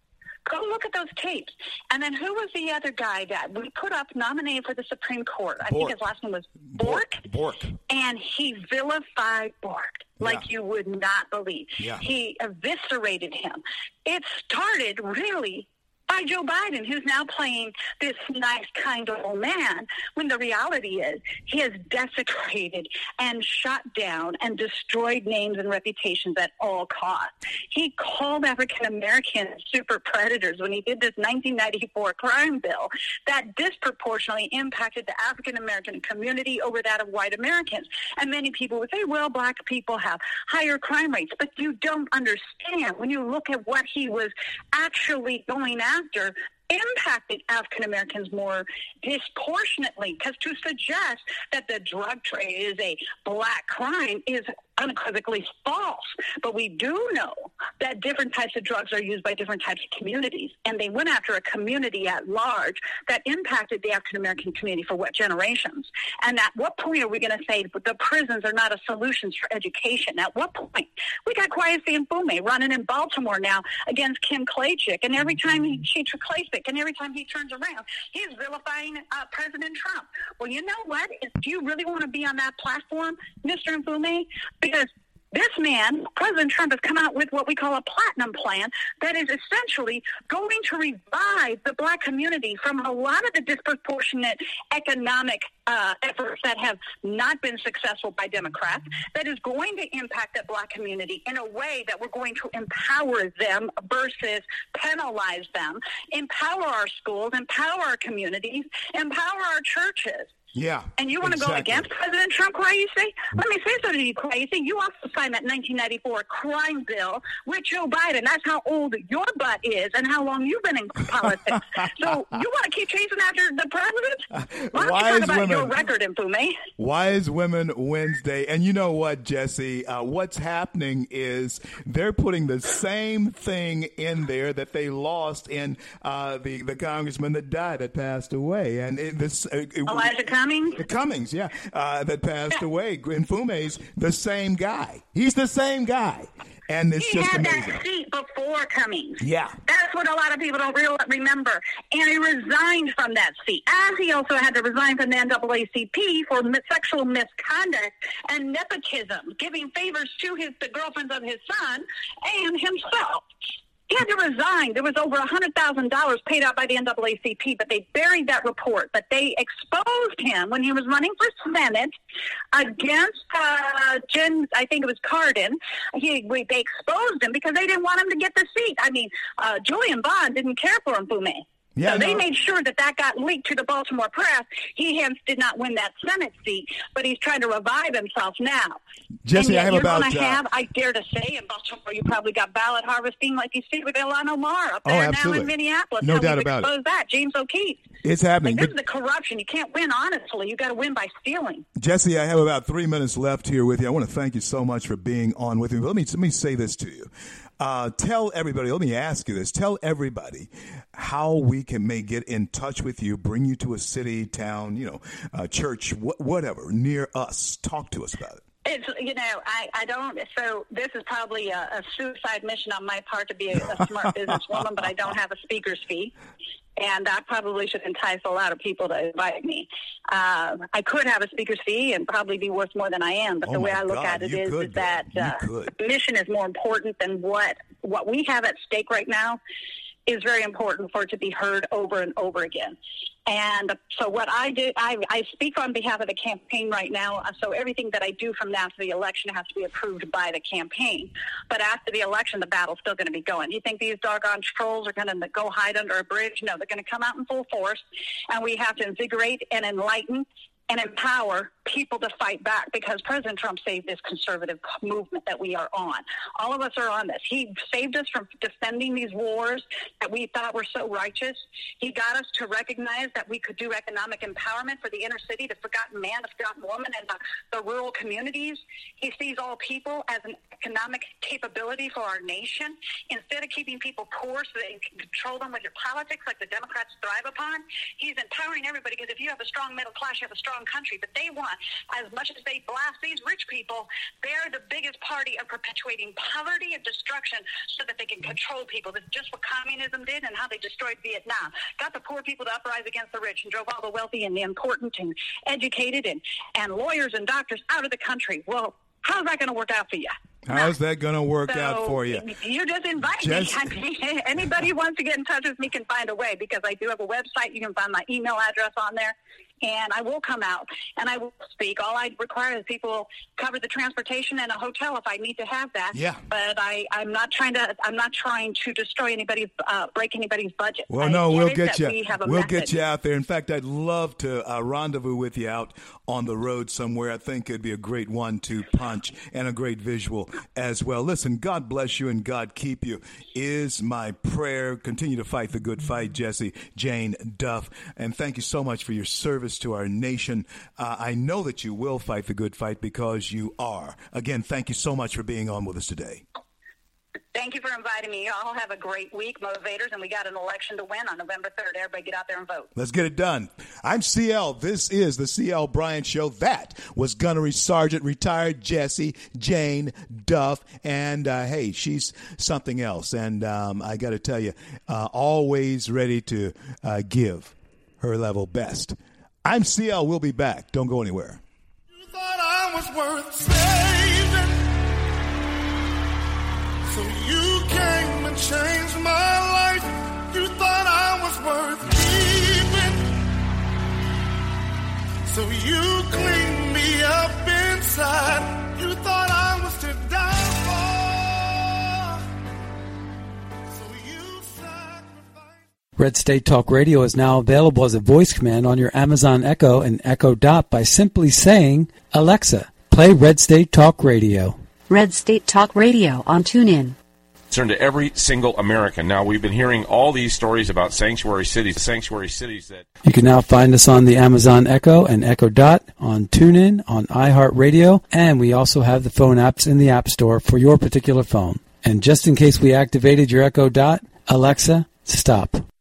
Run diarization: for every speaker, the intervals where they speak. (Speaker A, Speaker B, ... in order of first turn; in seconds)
Speaker A: 0.4-7.2, 7.9-110.3, 111.0-126.6, 139.9-140.8, 147.0-163.3, 163.9-171.9, 172.5-188.8, 189.3-197.9, 198.4-201.6, 218.6-226.1, 226.8-239.4, 240.1-310.7, 311.4-332.8, 357.3-362.7
Speaker B: 5.6-6.0, 6.7-7.8, 10.2-10.4, 110.5-111.9, 124.5-125.7, 126.8-140.1, 140.8-147.8, 149.2-149.6, 181.8-182.2, 189.2-190.4, 194.8-196.7, 198.0-198.7, 201.8-218.4, 233.4-235.7, 310.4-312.2, 313.2-313.7, 325.9-326.2, 330.9-356.2, 362.7-381.4
Speaker C: 381.9-384.7, 386.9-393.1, 395.3-402.2, 403.7-405.6
Speaker D: 406.0-414.6, 423.0-435.6
Speaker E: 414.9-416.9
Speaker F: 417.5-422.9